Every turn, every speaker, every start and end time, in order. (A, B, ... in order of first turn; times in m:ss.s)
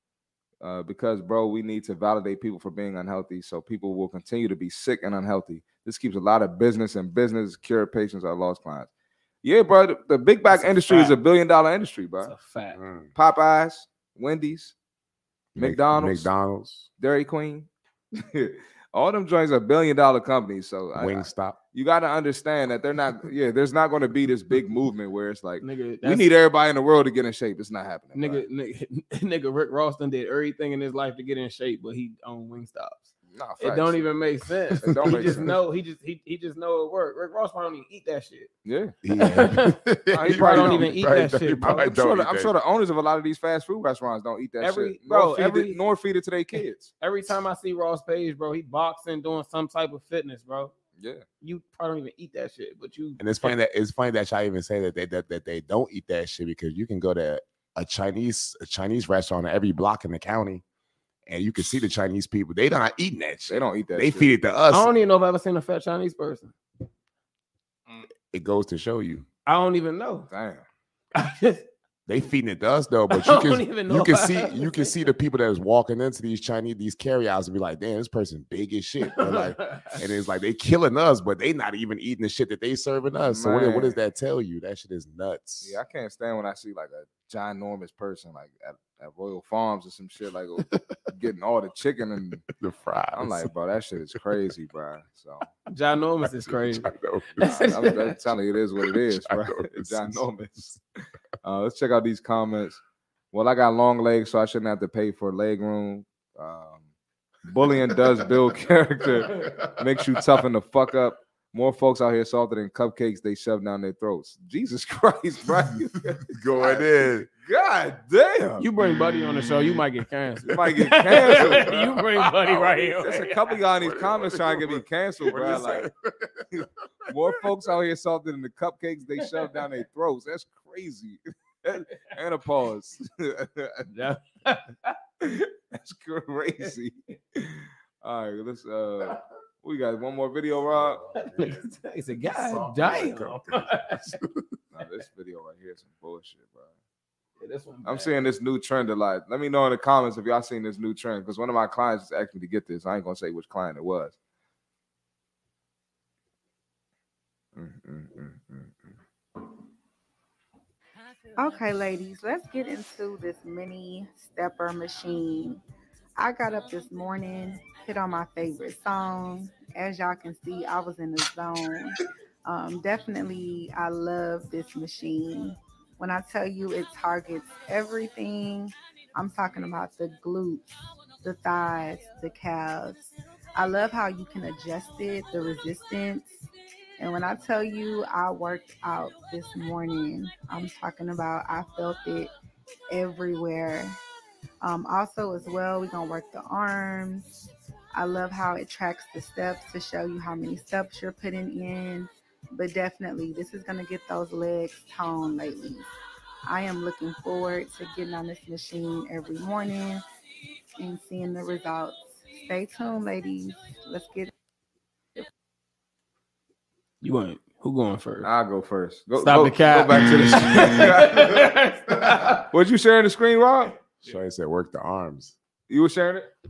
0:00.6-0:08.9 A
0:09.4-0:12.3 A
0:10.5-0:11.2 B
0:12.2-0:12.8 B
0:12.7-0:13.1 C
0:13.2-0:14.7 A
0:15.6-0:16.9 C
0:15.6-0:16.3 A
0:17.0-0:17.7 A
0:18.2-0:28.4 A
0:21.0-0:21.6 C
0:25.6-0:26.2 B
0:28.1-0:38.5 B
0:33.3-0:34.1 A
0:34.8-0:35.6 A
0:34.9-0:35.5 C
0:38.6-0:38.9 A
0:39.0-0:42.5 C
0:39.2-0:41.9 B
0:40.1-0:41.0 A
0:41.6-0:46.9 A
0:44.6-0:45.8 B
0:47.0-0:50.7 B
0:51.0-0:51.2 A
0:51.4-0:53.5 B
0:53.2-1:00.6 C
1:01.3-1:04.9 C
1:03.5-1:04.3 A
1:04.7-1:06.5 B
1:08.3-1:09.3 C
1:09.5-1:10.3 B
1:10.3-1:10.6 A
1:11.2-1:11.7 B
1:12.1-1:25.8 C
1:13.1-1:14.9 B
1:19.1-1:20.0 B
1:23.3-1:24.0 A
1:25.6-1:32.4 A
1:30.7-1:31.0 C
1:32.5-1:33.5 C
1:33.2-1:35.5 A
1:35.7-1:38.2 B
1:36.2-1:37.8 C
1:37.4-1:40.8 A
1:38.9-1:40.3 C
1:41.4-1:42.8 A
1:43.3-1:46.9 A
1:47.5-1:58.7 A
1:47.9-1:48.3 C
1:49.2-1:50.3 C
1:56.3-1:57.3 C
1:58.6-2:03.5 B
1:58.8-1:59.8 C
2:00.5-2:01.8 A
2:01.3-2:03.1 C
2:03.0-2:05.9 A
2:03.7-2:07.4 C
2:06.5-2:13.9 A
2:13.9-2:15.0 B
2:15.2-2:21.0 A
2:20.7-2:21.7 C
2:21.2-2:24.1 B
2:22.2-2:24.5 C
2:24.7-2:26.7 A
2:27.4-2:28.2 B
2:27.9-2:34.2 A
2:37.6-2:38.9 A
2:41.4-2:45.6 D
2:46.2-3:00.7 D
3:01.2-3:06.4 D
3:07.0-3:12.3 D
3:12.9-3:14.0 D
3:14.6-3:17.3 D
3:17.9-3:25.9 D
3:26.5-3:30.0 D
3:30.8-3:34.3 D
3:37.0-3:38.3 B
3:38.2-3:41.5 A
3:39.2-3:42.4 B
3:42.5-3:43.8 A
3:44.0-3:45.4 C
3:45.7-3:46.3 A